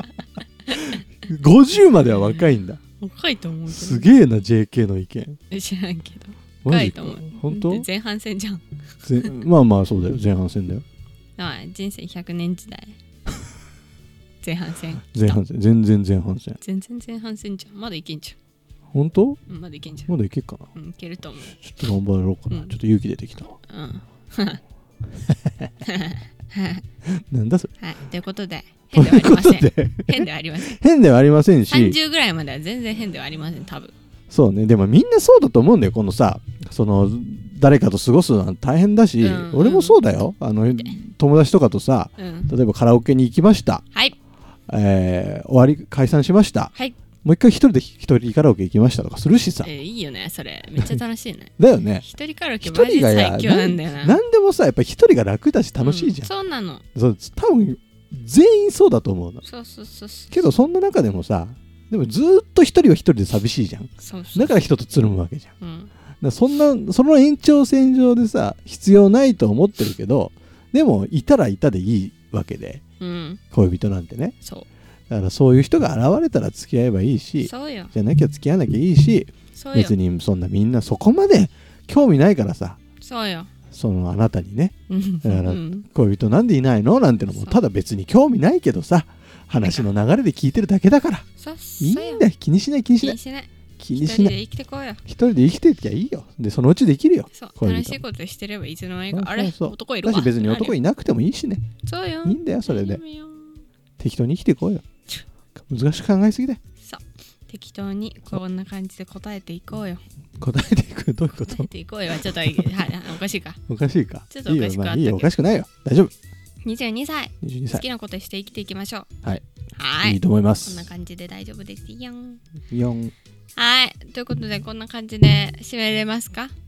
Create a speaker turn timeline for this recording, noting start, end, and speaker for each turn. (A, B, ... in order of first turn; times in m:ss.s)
0:00.7-0:02.8 A
0:03.0-0:04.1 B
0:03.7-0:05.4 A
0:05.5-0:09.3 B
0:06.6-0:07.8 A
0:09.0-0:10.8 A
0:11.4-0:13.0 B
0:14.4-0:15.4 B
0:15.1-0:16.6 A
0:16.6-0:18.4 B
0:18.9-0:19.4 A
0:19.5-0:20.1 B
0:20.1-0:20.7 A
0:20.7-0:21.7 B
0:21.6-0:23.6 A
0:22.5-0:22.7 B
0:23.7-0:24.6 B
0:25.8-0:26.8 B
0:27.0-0:27.7 A
0:27.8-0:30.8 B
0:28.9-0:32.0 A
0:31.7-0:33.9 B
0:34.3-0:43.8 A
0:39.2-0:40.1 B
0:42.2-0:42.5 B
0:44.7-0:46.7 A
0:47.2-0:49.7 A
0:49.6-0:54.2 B
0:51.6-0:52.0 A
0:52.6-0:56.3 A
0:55.8-0:56.8 B
0:56.9-0:59.4 A
0:59.4-1:00.4 B
1:00.3-1:05.5 A
1:04.0-1:04.6 B
1:05.6-1:05.9 B
1:06.2-1:12.8 A
1:13.0-1:13.4 B
1:13.5-1:14.3 A
1:15.1-1:22.8 A
1:17.4-1:17.9 B
1:19.6-1:20.0 B
1:23.0-1:23.5 B
1:23.7-1:31.2 A
1:24.9-1:25.8 B
1:27.3-1:27.6 B
1:29.6-1:29.9 B
1:31.4-1:32.3 B
1:31.8-1:33.2 A
1:33.0-1:35.0 B
1:33.8-1:34.4 A
1:35.1-1:38.0 A
1:37.3-1:40.8 B
1:39.1-1:41.6 A
1:41.8-1:43.6 B
1:42.2-1:43.0 A
1:44.0-1:44.8 A
1:45.7-1:46.6 A
1:46.8-1:50.0 B
1:50.4-1:51.7 A
1:51.4-1:53.6 B
1:52.2-1:52.7 A
1:53.7-1:56.1 A
1:54.3-1:55.3 B
1:56.6-1:59.1 B
1:57.4-1:57.8 A
1:59.8-2:02.4 B
2:00.0-2:00.9 A
2:02.7-2:03.1 A
2:03.6-2:06.5 B